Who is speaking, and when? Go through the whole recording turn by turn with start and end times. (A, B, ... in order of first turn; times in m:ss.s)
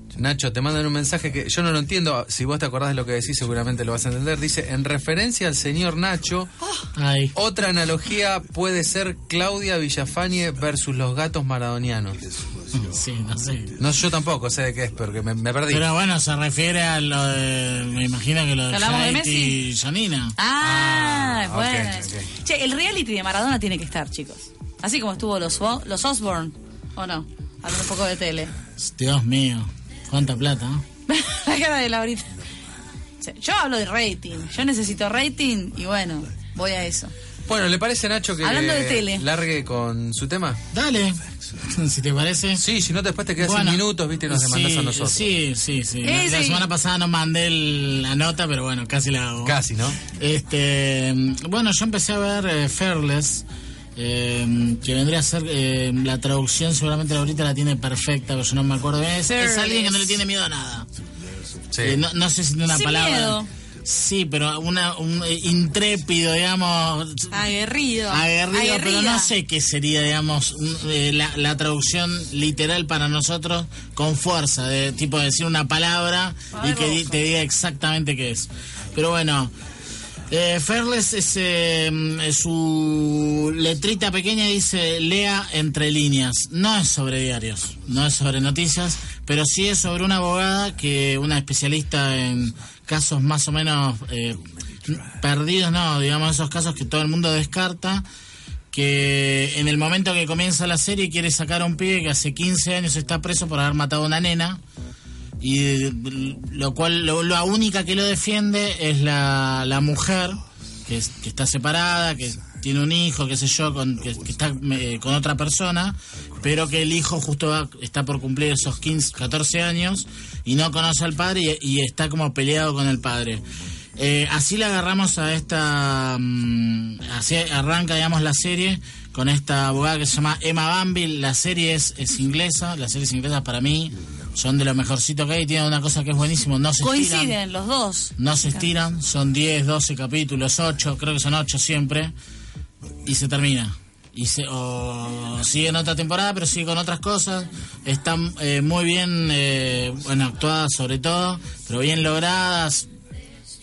0:00.1-0:06.5 A
0:06.9-0:07.3 B
0:07.3-0:12.2 A
0:12.7-0:13.7 B
0:13.8-0:15.8 A
0:15.7-0:20.3 B
0:18.7-0:19.6 C
0:20.4-0:28.5 C
0:20.6-0:22.3 A
0:28.8-0:30.8 B
0:31.1-0:32.3 C
0:33.2-0:37.1 C
0:37.5-0:40.6 A
0:38.4-0:39.2 C
0:40.7-0:42.6 B
0:42.6-0:45.3 A
0:43.4-0:53.4 B
0:46.0-0:46.7 C
0:49.4-0:50.0 A
0:54.0-1:00.9 B
0:59.3-1:00.2 C
1:01.7-1:02.0 A
1:01.8-1:07.4 B
1:02.7-1:03.5 C
1:07.4-1:09.3 C
1:08.1-1:19.5 B
1:16.5-1:17.1 C
1:20.3-1:38.0 B
1:38.7-1:44.6 B
1:45.4-2:03.4 B
2:04.0-2:17.4 B
2:16.8-2:18.6 C
2:18.2-2:22.1 B
2:23.0-2:32.9 B